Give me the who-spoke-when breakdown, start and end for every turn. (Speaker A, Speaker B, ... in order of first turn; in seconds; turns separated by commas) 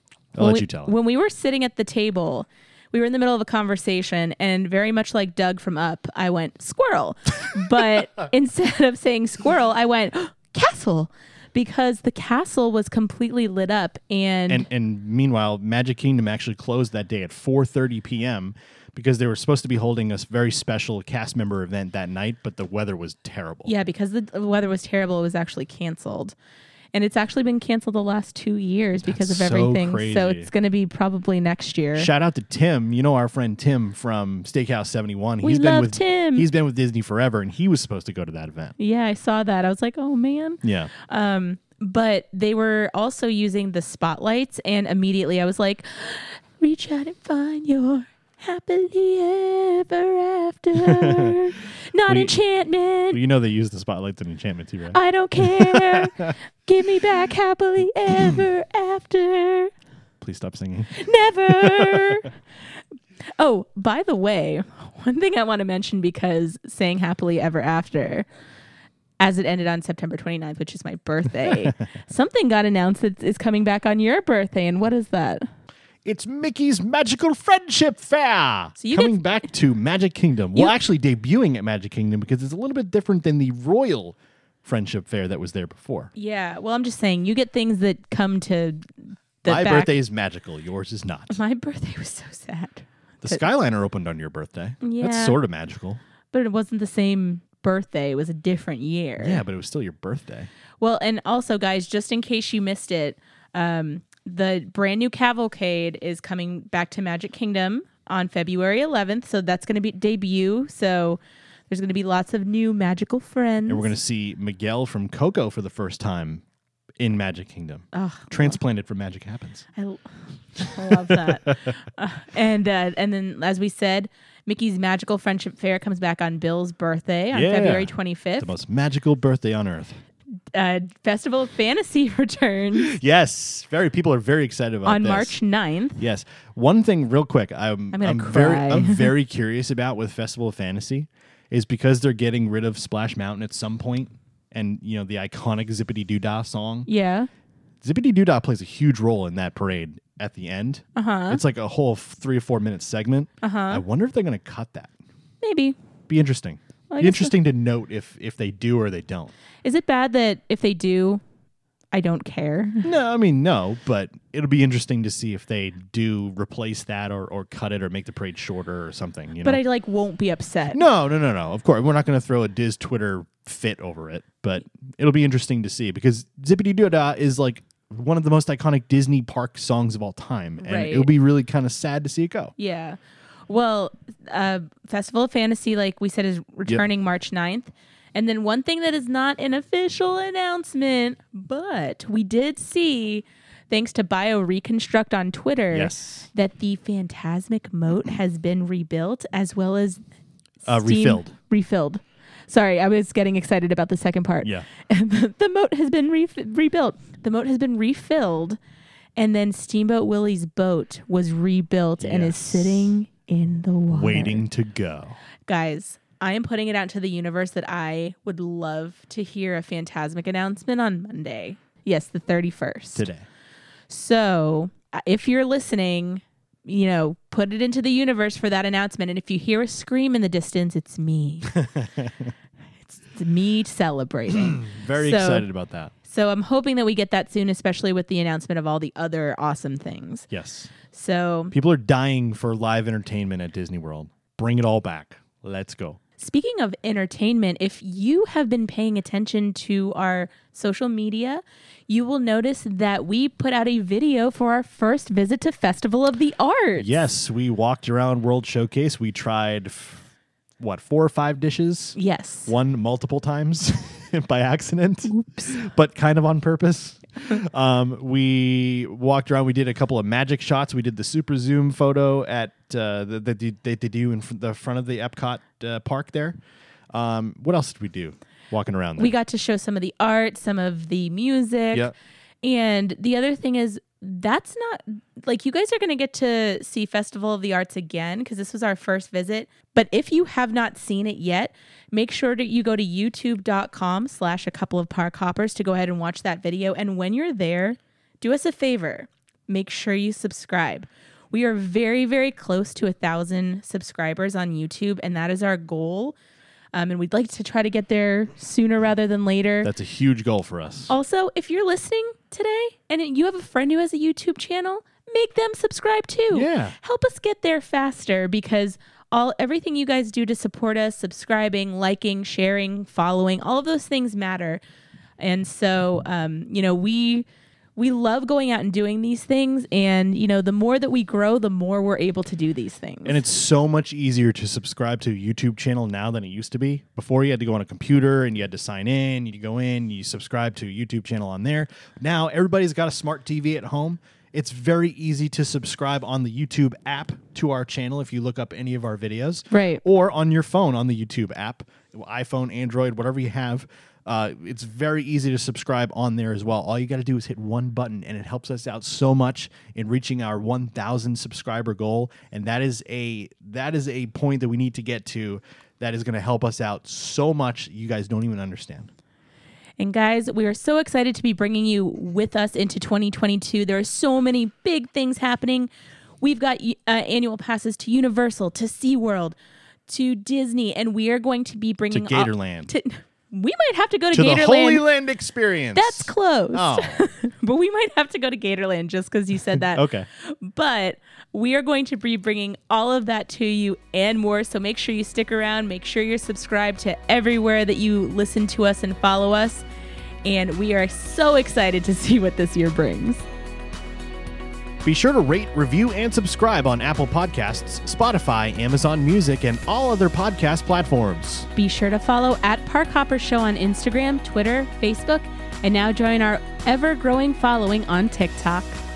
Speaker A: 0.3-0.9, Speaker B: 0.4-14.7, Speaker A: 14.5-23.7, Speaker B: 23.6-26.3, Speaker B: 26.9-32.1, Speaker A: 29.0-30.5, Speaker A: 31.9-38.7, Speaker B: 35.4-36.5, Speaker B: 38.8-53.2, Speaker A: 40.6-40.9, Speaker A: 50.8-51.4, Speaker A: 52.1-52.3, Speaker A: 53.1-56.3, Speaker B: 54.9-59.7, Speaker A: 60.2-62.2, Speaker B: 60.9-62.3, Speaker B: 63.4-68.3, Speaker B: 69.2-75.5, Speaker A: 76.0-86.1, Speaker B: 78.8-79.5, Speaker B: 86.2-88.8, Speaker B: 89.4-89.9, Speaker A: 89.5-91.4, Speaker B: 91.3-93.4, Speaker A: 93.2-96.0, Speaker B: 94.8-95.4, Speaker B: 96.3-99.4, Speaker A: 99.2-100.5, Speaker B: 100.8-113.9, Speaker A: 113.7-116.4, Speaker A: 117.0-119.7, Speaker B: 117.9-118.6, Speaker B: 119.8-120.0, Speaker B: 120.5-128.5, Speaker A: 120.8-121.7, Speaker A: 127.3-130.0, Speaker B: 130.5-133.0, Speaker A: 132.7-135.3, Speaker B: 134.8-136.0, Speaker A: 136.0-146.9, Speaker B: 137.9-139.1, Speaker B: 146.9-147.3, Speaker A: 147.8-154.9, Speaker B: 150.9-151.4, Speaker B: 153.4-153.8, Speaker B: 155.4-155.8, Speaker A: 156.1-159.3, Speaker B: 156.9-157.3, Speaker B: 159.6-161.2, Speaker B: 161.9-162.9, Speaker A: 162.8-169.6, Speaker B: 169.4-170.8, Speaker A: 170.7-182.5, Speaker B: 180.6-181.1, Speaker B: 182.6-200.0, Speaker A: 195.7-196.3, Speaker B: 200.7-208.6, Speaker A: 200.7-201.3, Speaker B: 209.2-214.4, Speaker A: 212.0-213.0, Speaker A: 213.9-215.2, Speaker B: 215.4-223.1, Speaker A: 222.9-223.2, Speaker B: 223.9-231.6, Speaker A: 231.5-232.3, Speaker B: 232.9-235.4, Speaker A: 234.3-235.9, Speaker B: 236.1-240.3, Speaker A: 240.3-240.7, Speaker B: 240.9-241.5, Speaker A: 241.5-246.0, Speaker B: 246.2-257.1, Speaker A: 256.8-260.1, Speaker A: 260.6-276.4, Speaker B: 261.9-262.5, Speaker B: 265.1-265.6, Speaker A: 276.9-279.1, Speaker B: 279.0-281.9, Speaker B: 282.4-306.2, Speaker B: 306.7-309.7, Speaker A: 309.6-310.9, Speaker B: 310.9-324.6, Speaker A: 316.3-316.8, Speaker B: 325.2-333.2, Speaker A: 333.1-368.9, Speaker B: 349.5-349.8, Speaker B: 369.8-375.7, Speaker B: 376.2-379.4, Speaker B: 379.9-384.8, Speaker A: 381.9-382.7, Speaker A: 384.1-387.0, Speaker B: 385.7-399.6, Speaker A: 389.6-390.1, Speaker B: 400.2-403.2, Speaker A: 404.8-411.5, Speaker B: 411.6-418.8